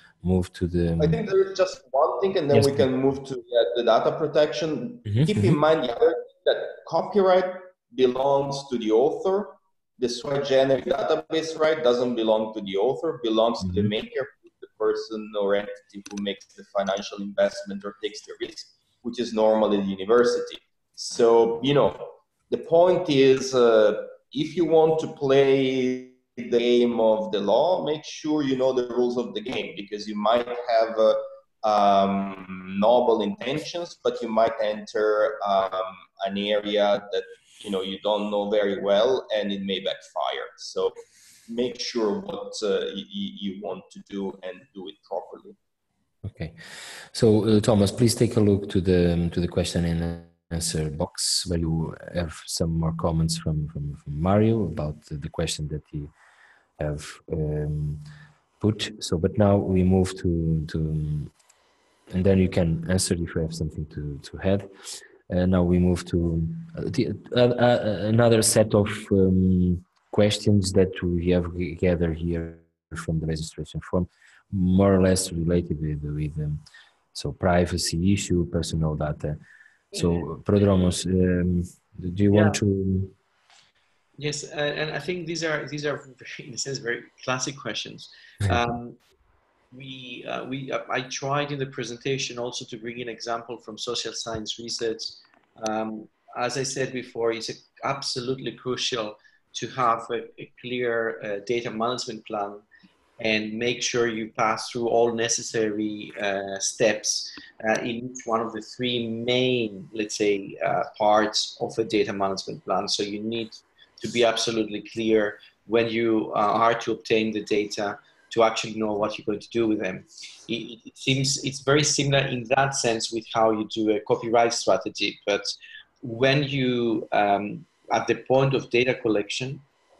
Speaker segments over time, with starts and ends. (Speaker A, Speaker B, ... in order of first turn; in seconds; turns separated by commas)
Speaker A: 0.2-1.2, Speaker B: 1.0-40.9, Speaker A: 2.5-2.9, Speaker A: 5.1-5.5, Speaker A: 13.6-13.9, Speaker B: 41.5-45.6, Speaker A: 46.2-56.1, Speaker A: 56.8-58.0, Speaker A: 58.6-61.3, Speaker A: 62.1-64.7, Speaker A: 65.3-76.6, Speaker A: 77.1-79.4, Speaker A: 79.9-83.2, Speaker C: 80.0-80.2, Speaker C: 82.3-82.6, Speaker C: 84.2-89.0, Speaker C: 89.7-102.6, Speaker C: 103.2-129.6